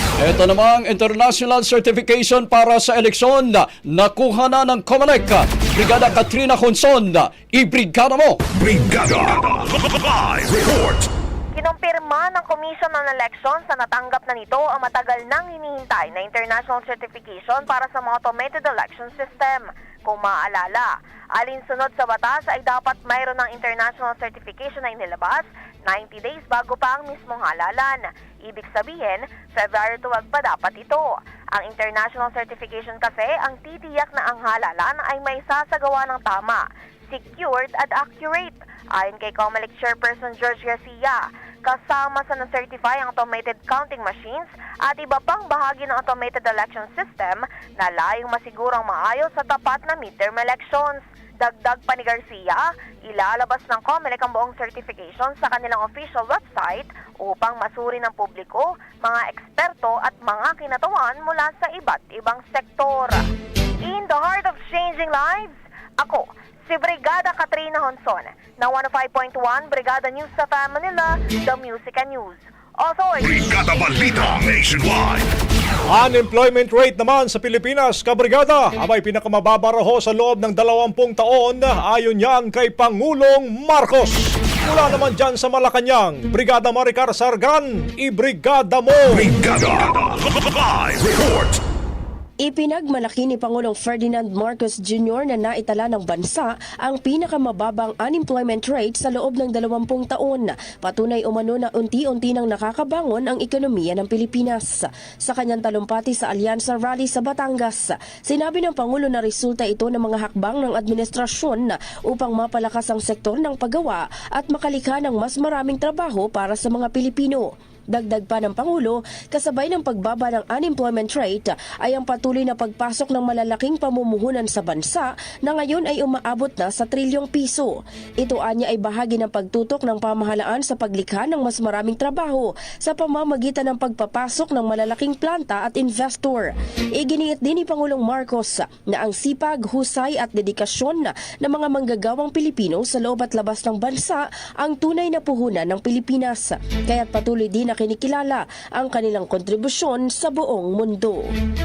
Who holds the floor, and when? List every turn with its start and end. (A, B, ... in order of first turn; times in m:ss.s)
0:00.2-0:08.4 A
0:08.5-0:11.1 B
0:11.5-1:03.2 C
1:03.8-1:13.4 C
1:13.2-1:15.3 B
1:15.9-1:29.2 D
1:29.1-1:31.6 B
1:32.4-2:31.3 E